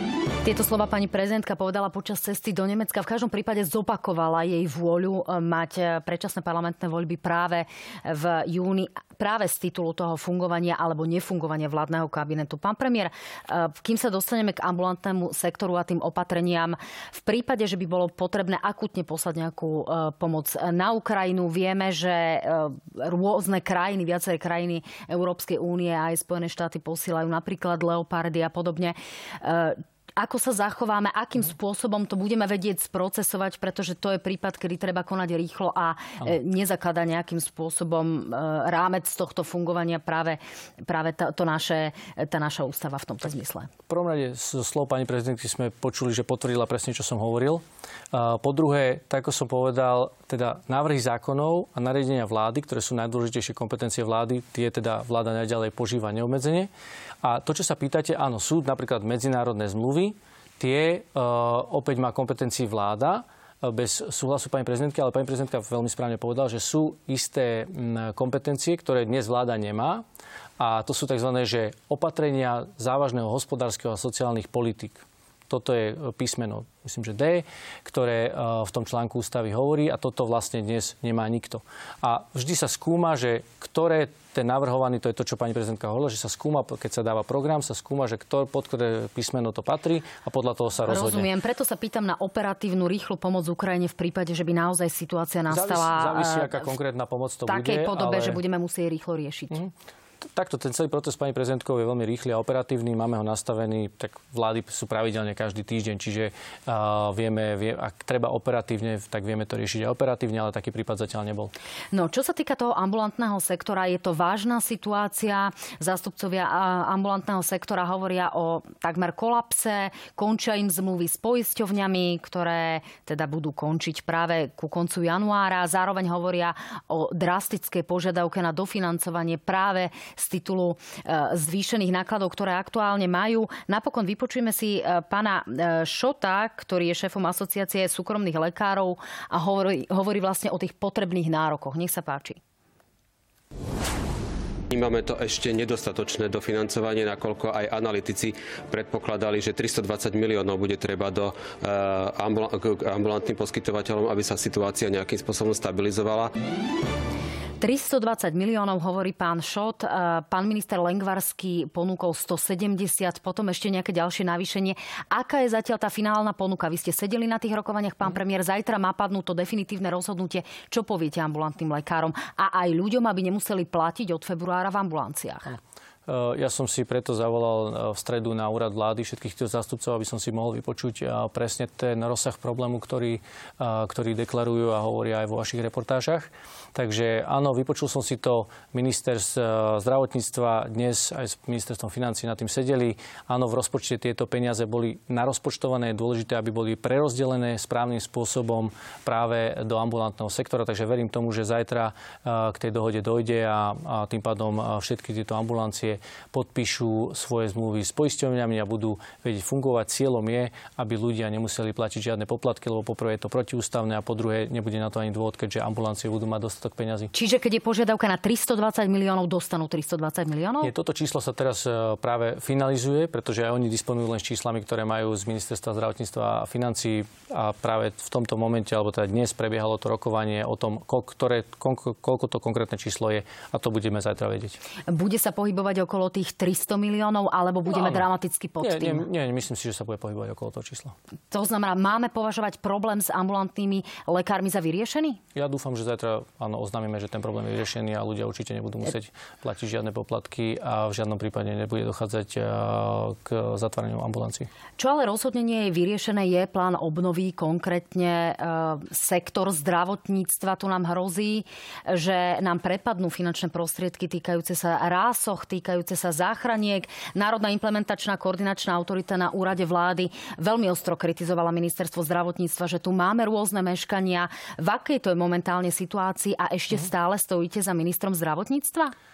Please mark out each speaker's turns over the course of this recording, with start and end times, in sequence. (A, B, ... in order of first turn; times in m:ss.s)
0:00.4-0:43.7 A
0:43.9-0:56.7 B
0:57.2-1:10.0 B
1:10.6-1:31.3 B
1:30.9-1:36.7 A
1:35.5-1:38.4 B
1:37.5-1:39.6 A
1:40.2-1:51.5 B
1:51.9-2:22.4 A
2:24.7-2:36.3 C
2:37.6-2:55.6 A
2:56.1-3:37.1 B
3:37.1-3:40.7 A
3:40.6-3:54.6 B
3:54.9-3:59.1 A
3:57.7-3:58.1 B
3:58.6-4:01.0 B
4:01.3-4:05.2 A
4:05.4-4:14.5 B
4:14.8-4:39.0 A